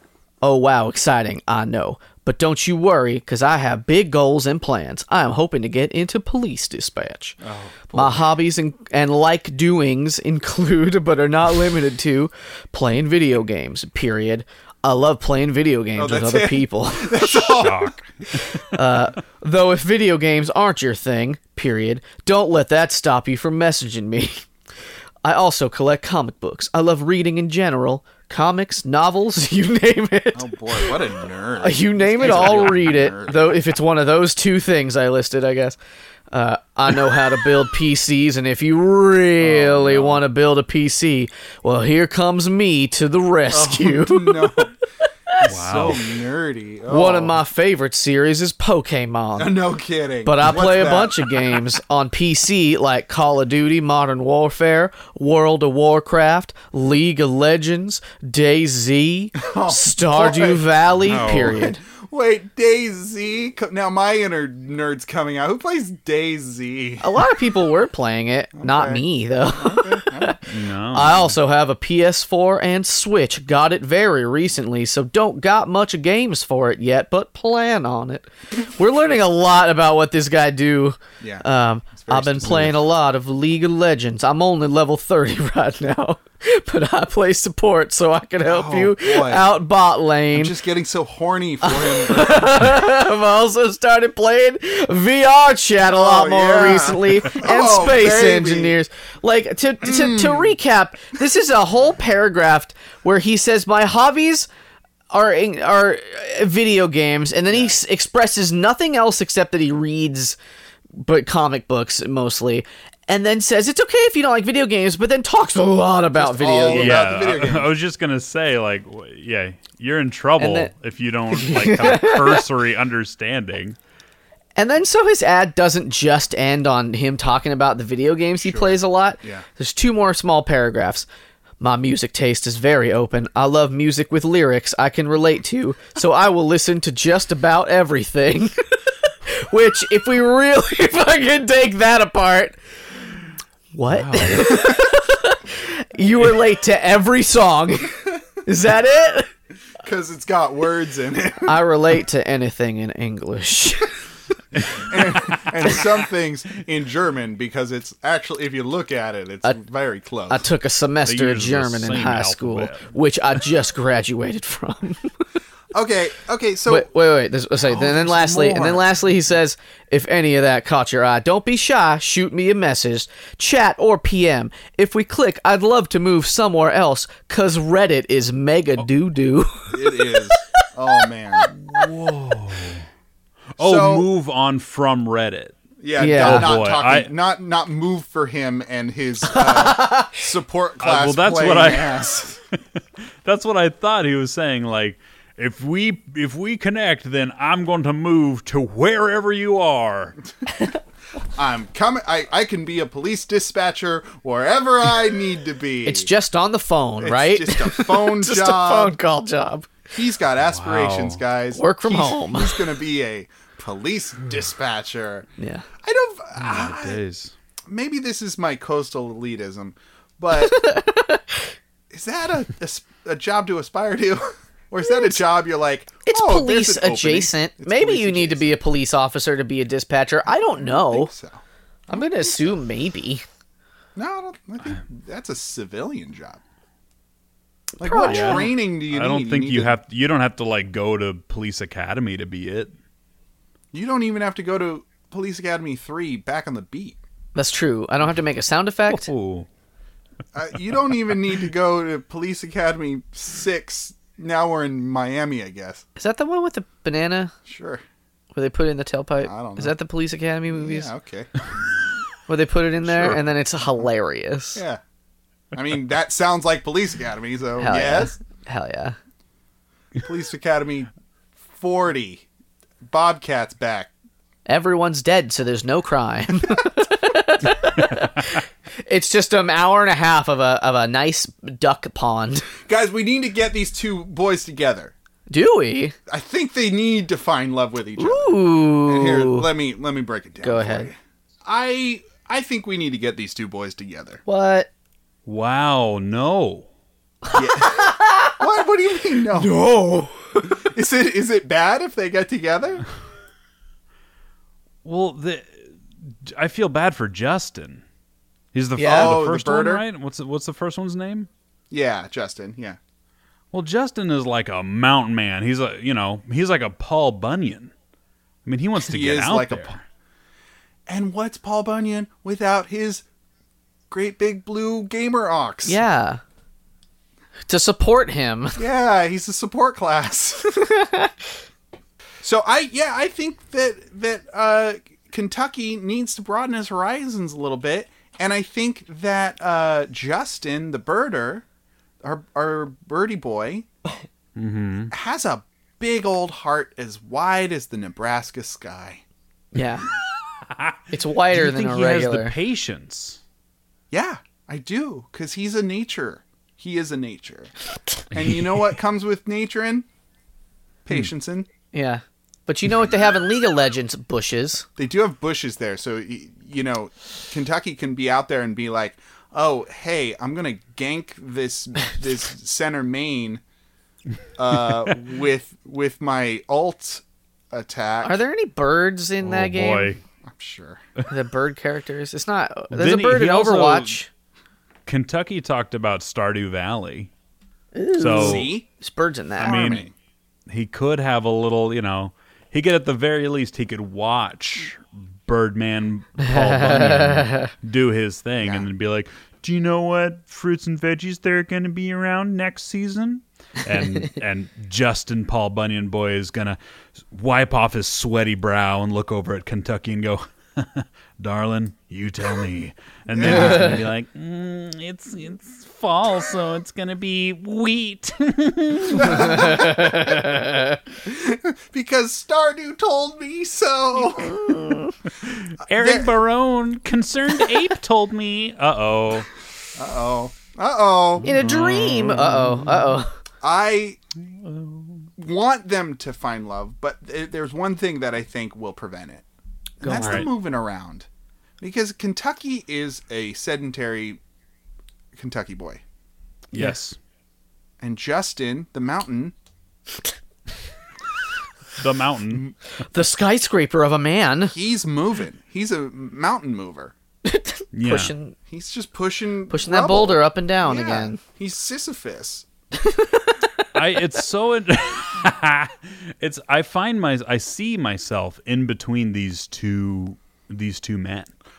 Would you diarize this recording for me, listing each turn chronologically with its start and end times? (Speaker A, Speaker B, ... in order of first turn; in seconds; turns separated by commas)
Speaker A: 0.4-7.4, Speaker B: 7.4-8.3, Speaker A: 7.9-17.7, Speaker B: 15.9-17.9, Speaker C: 17.6-18.6, Speaker A: 18.6-24.4, Speaker A: 25.2-31.0, Speaker B: 30.3-33.6, Speaker A: 31.6-35.8, Speaker C: 32.2-32.8, Speaker A: 36.3-44.5, Speaker B: 39.4-40.2, Speaker B: 43.5-44.7, Speaker B: 45.4-47.4, Speaker C: 45.4-46.0, Speaker A: 46.9-49.5, Speaker B: 49.4-51.3, Speaker A: 50.2-61.8, Speaker B: 59.4-67.2, Speaker C: 61.0-61.6, Speaker A: 67.0-90.5, Speaker B: 68.6-70.4, Speaker C: 70.5-71.3, Speaker B: 81.2-82.8, Speaker B: 88.4-89.5, Speaker B: 90.3-92.7, Speaker A: 91.6-104.5, Speaker B: 95.8-98.8, Speaker B: 99.8-100.5, Speaker A: 105.1-110.4, Speaker B: 107.5-107.8, Speaker A: 111.0-117.0, Speaker B: 116.1-117.7, Speaker C: 116.7-123.8, Speaker A: 120.4-120.7, Speaker A: 121.3-122.4, Speaker A: 124.5-131.1, Speaker B: 128.4-129.4, Speaker A: 131.6-142.6, Speaker A: 143.7-149.3, Speaker C: 143.9-144.6, Speaker B: 149.8-151.6, Speaker A: 151.4-153.9, Speaker B: 154.7-160.4, Speaker A: 160.3-165.1, Speaker C: 161.0-162.9, Speaker B: 165.7-166.9, Speaker A: 166.7-180.4, Speaker B: 167.6-168.9, Speaker B: 179.7-181.5, Speaker A: 181.0-181.5, Speaker C: 181.5-182.9, Speaker C: 183.6-185.6, Speaker B: 183.6-184.1, Speaker B: 185.8-192.4, Speaker A: 186.0-186.6, Speaker C: 186.1-187.1, Speaker A: 189.3-190.2, Speaker C: 190.8-192.0, Speaker C: 193.2-200.2, Speaker B: 201.3-206.1, Speaker A: 205.8-209.7, Speaker B: 207.0-208.9, Speaker B: 209.9-215.3, Speaker C: 210.4-211.2, Speaker A: 211.5-212.7, Speaker A: 215.4-215.7, Speaker B: 215.8-217.0, Speaker C: 216.3-217.3, Speaker B: 217.7-220.7, Speaker A: 220.3-221.4, Speaker B: 221.9-228.5, Speaker A: 226.1-231.1, Speaker B: 230.5-232.6, Speaker A: 231.9-233.2, Speaker B: 233.9-236.4, Speaker A: 237.8-238.5, Speaker B: 237.8-239.7, Speaker C: 238.0-242.7, Speaker B: 243.7-247.0, Speaker A: 247.3-249.1, Speaker C: 248.9-249.5, Speaker B: 250.3-255.8, Speaker A: 256.0-257.3, Speaker B: 257.5-257.8, Speaker A: 258.3-260.9, Speaker B: 259.2-259.7, Speaker B: 260.5-261.6, Speaker A: 262.3-264.6, Speaker B: 262.9-263.2, Speaker B: 264.5-264.8, Speaker B: 265.5-268.1, Speaker A: 267.6-269.0, Speaker B: 269.9-270.9, Speaker B: 271.5-272.2, Speaker B: 272.8-273.9, Speaker A: 274.4-282.5, Speaker B: 282.7-284.9, Speaker A: 285.3-285.9, Speaker B: 286.1-294.2, Speaker A: 288.0-289.5, Speaker A: 290.4-290.9, Speaker A: 294.3-294.7, Speaker C: 295.2-296.7, Speaker A: 297.2-298.4, Speaker B: 297.3-299.6, Speaker A: 299.3-300.7, Speaker B: 300.6-302.8, Speaker C: 304.8-305.7, Speaker C: 306.2-307.8, Speaker C: 308.5-311.3, Speaker A: 308.8-309.1, Speaker B: 308.8-309.8, Speaker B: 311.7-312.8, Speaker C: 313.5-317.7, Speaker C: 318.4-319.8, Speaker B: 318.8-319.7, Speaker B: 320.9-323.0, Speaker B: 323.9-325.8, Speaker A: 325.6-326.2, Speaker A: 327.5-328.6, Speaker B: 328.6-330.6, Speaker A: 330.6-331.2, Speaker B: 332.2-341.4, Speaker B: 342.0-343.7, Speaker C: 344.4-344.9, Speaker B: 344.9-349.0, Speaker A: 349.5-349.9, Speaker C: 350.5-353.2, Speaker A: 350.9-352.3, Speaker B: 353.9-357.5, Speaker B: 358.1-359.9, Speaker B: 360.8-361.5, Speaker A: 361.7-364.6, Speaker B: 364.8-373.4, Speaker B: 374.4-378.2, Speaker A: 378.0-379.9, Speaker C: 379.2-380.0, Speaker B: 380.2-380.8, Speaker A: 381.1-384.1, Speaker C: 382.7-384.0, Speaker C: 384.9-387.1, Speaker A: 387.7-389.6, Speaker C: 387.9-388.5, Speaker B: 388.1-388.7, Speaker B: 389.4-389.9, Speaker C: 389.4-389.9, Speaker C: 390.5-406.6, Speaker A: 396.3-397.5, Speaker B: 398.4-398.7, Speaker C: 407.1-419.6, Speaker B: 413.1-413.8, Speaker A: 413.3-413.8, Speaker B: 418.9-420.4, Speaker A: 419.2-420.8, Speaker B: 421.0-424.6, Speaker A: 424.3-424.9, Speaker C: 425.2-429.3, Speaker B: 425.7-426.1, Speaker B: 429.8-431.3, Speaker C: 431.2-433.0, Speaker A: 431.2-433.1, Speaker B: 433.4-434.0, Speaker C: 434.3-435.1, Speaker B: 435.2-439.2, Speaker B: 439.8-441.1, Speaker A: 439.8-440.3, Speaker C: 439.9-440.3, Speaker B: 441.6-444.2, Speaker B: 445.1-445.8, Speaker C: 446.5-447.0, Speaker B: 447.8-449.3, Speaker C: 451.8-452.5, Speaker A: 452.9-454.6, Speaker B: 454.5-456.9, Speaker A: 457.2-458.4, Speaker C: 457.7-458.1, Speaker B: 458.5-462.4, Speaker A: 459.5-461.2, Speaker A: 462.8-463.3, Speaker C: 463.7-471.3